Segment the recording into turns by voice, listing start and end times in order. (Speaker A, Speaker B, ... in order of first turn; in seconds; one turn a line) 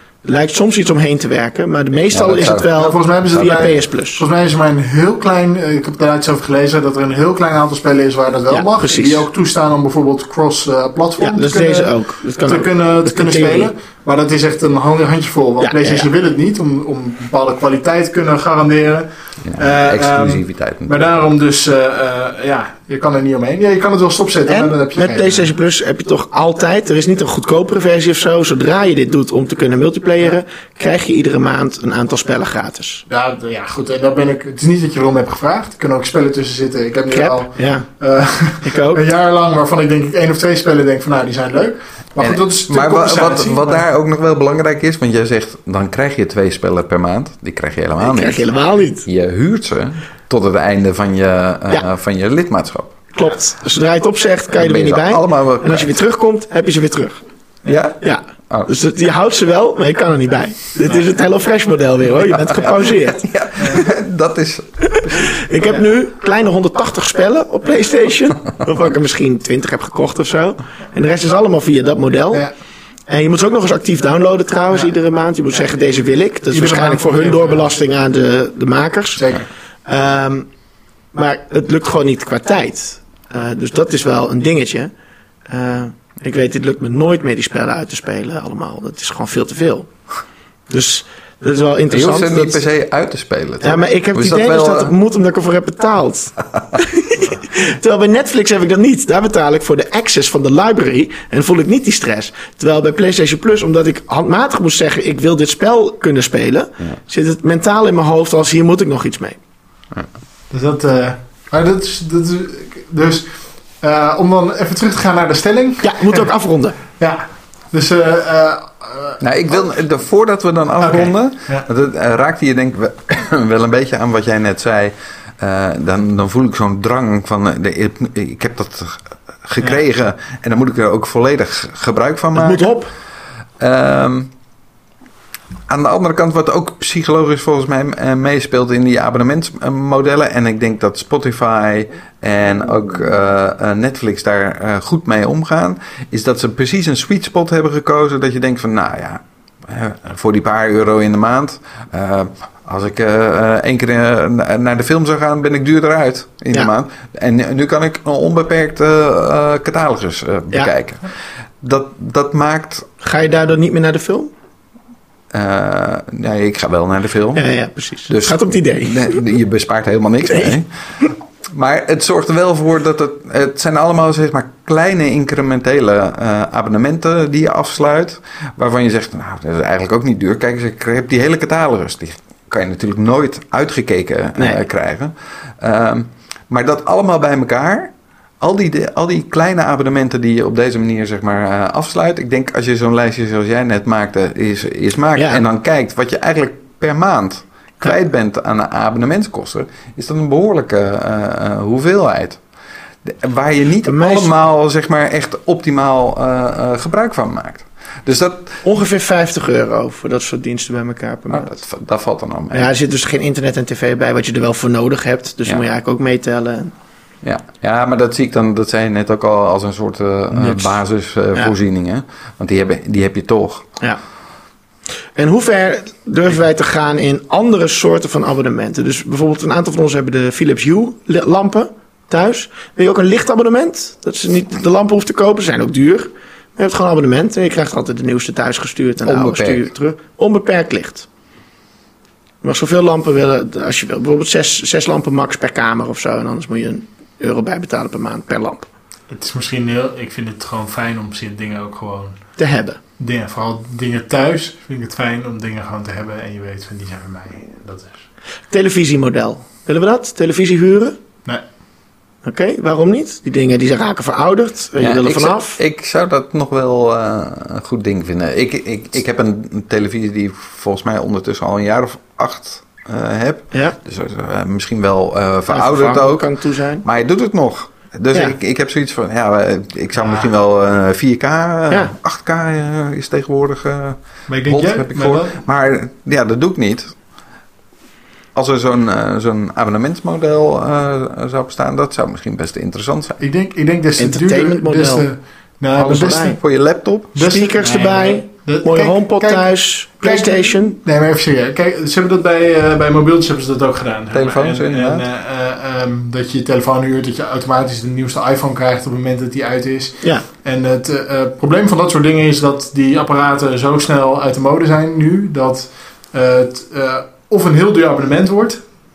Speaker A: 0.2-4.2
Speaker B: 2.1-2.8
Speaker C: 2.2-25.5
Speaker B: 3.3-3.7
Speaker A: 8.5-9.2
Speaker A: 11.2-13.7
Speaker A: 15.6-16.1
Speaker B: 19.4-21.1
Speaker A: 24.4-33.0
Speaker C: 33.1-43.8
Speaker A: 37.1-37.9
Speaker A: 38.6-39.0
Speaker B: 42.2-48.4
Speaker A: 48.0-49.0
Speaker B: 49.0-53.0
Speaker A: 53.1-57.2
Speaker B: 54.5-55.9
Speaker B: 57.6-58.0
Speaker A: 58.0-63.3
Speaker B: 62.2-64.7
Speaker A: 64.8-72.4
Speaker C: 65.1-65.8
Speaker A: 73.1-79.2
Speaker C: 76.5-77.7
Speaker C: 79.2-79.4
Speaker A: 79.8-80.5
Speaker A: 81.1-84.9
Speaker A: 85.5-89.9
Speaker A: 90.7-92.6
Speaker B: 91.9-94.9
Speaker A: 93.6-109.4
Speaker C: 110.5-113.3
Speaker C: 113.8-116.3
Speaker A: 115.8-116.8
Speaker C: 117.0-119.2
Speaker B: 119.2-132.7
Speaker C: 120.8-121.7
Speaker A: 132.3-132.9
Speaker B: 133.6-134.3
Speaker B: 135.7-162.9
Speaker A: 163.0-164.3
Speaker B: 165.3-167.4
Speaker A: 167.3-169.2
Speaker B: 168.1-170.7
Speaker A: 170.2-170.5
Speaker B: 171.5-202.4
Speaker A: 184.3-184.6
Speaker A: 195.2-195.4
Speaker B: 203.0-208.6
Speaker A: 203.8-204.3
Speaker A: 208.6-211.6
Speaker B: 211.3-212.7
Speaker A: 212.5-216.7
Speaker B: 217.2-223.7
Speaker C: 220.4-220.7
Speaker A: 225.2-241.1
Speaker B: 239.0-239.7
Speaker A: 242.4-248.7
Speaker C: 249.1-252.2
Speaker A: 252.4-252.8
Speaker C: 253.0-258.0
Speaker A: 258.5-261.0
Speaker A: 262.2-265.6
Speaker B: 264.8-276.3
Speaker A: 275.5-276.8
Speaker B: 276.8-286.9
Speaker C: 280.0-280.3
Speaker C: 284.3-285.4
Speaker B: 288.3-293.2
Speaker C: 293.2-296.4
Speaker A: 294.0-295.1
Speaker A: 295.8-296.4
Speaker B: 296.4-297.1
Speaker C: 297.1-318.6
Speaker A: 297.2-300.8
Speaker B: 304.1-305.1